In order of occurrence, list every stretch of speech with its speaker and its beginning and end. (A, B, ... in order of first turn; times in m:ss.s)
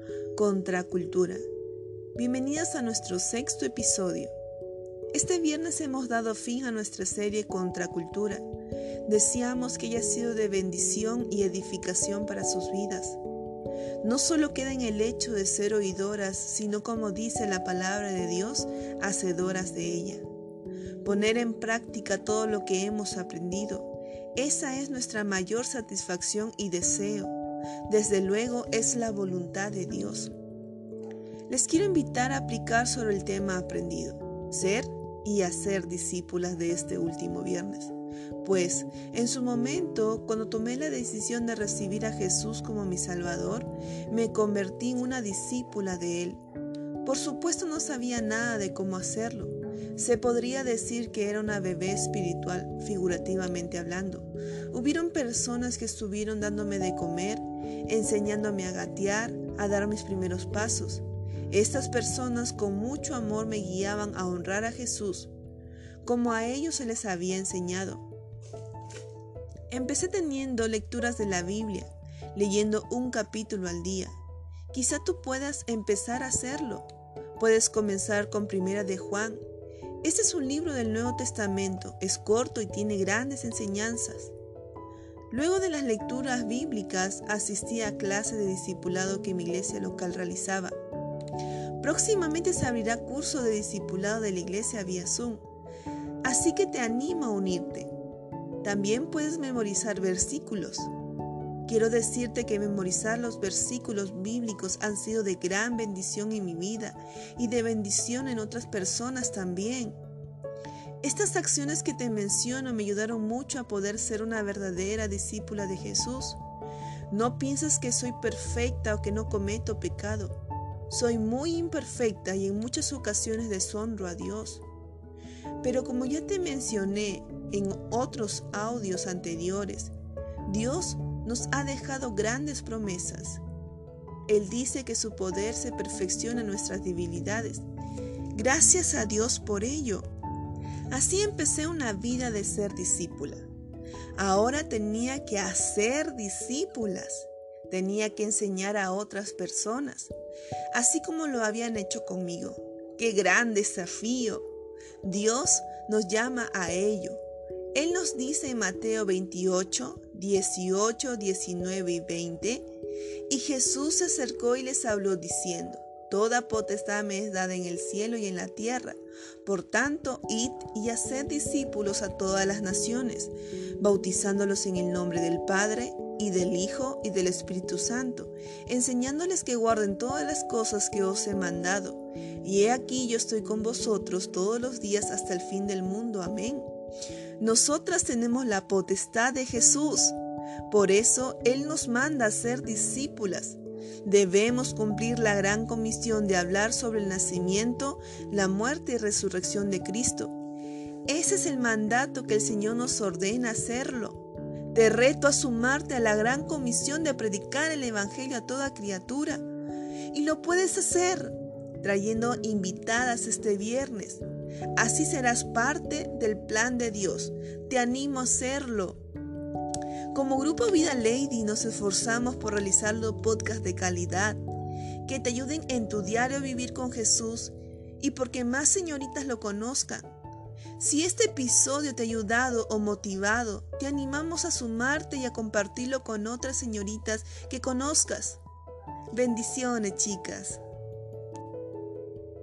0:00.3-0:01.4 A
0:02.1-0:04.3 A
0:05.1-0:08.4 A
0:09.0-0:13.2 A
0:14.0-0:20.2 A
0:21.0-0:27.3 A
0:27.8-0:30.3 A
0:31.5-0:46.4 A
0:47.0-1:05.3 A
1:06.0-1:08.0 A
1:09.7-1:14.1 A
1:14.7-1:16.8 A
1:17.4-1:19.4 A
1:20.0-1:24.3 A
1:25.3-1:30.7 A
1:31.8-1:35.4 A
1:36.2-1:37.9 A
1:38.6-1:40.9 A
1:41.6-1:50.0 A
1:51.0-1:56.4 A
1:57.1-2:00.4 A
2:00.9-2:04.6 A
2:05.6-2:09.9 A
2:10.4-2:13.4 A
2:14.3-2:17.6 A
2:18.3-2:20.1 A
2:20.9-2:23.4 A
2:24.2-2:30.1 A
2:30.7-2:34.5 A
2:35.0-2:37.2 A
2:37.7-2:42.6 A
2:43.3-3:06.7 A
3:07.4-3:10.2 A
3:10.7-3:20.3 A
3:21.1-3:29.4 A
3:30.1-3:34.2 A
3:34.8-3:39.0 A
3:40.1-3:44.4 A
3:45.0-3:50.1 A
3:50.8-3:58.4 A
3:59.1-4:00.6 A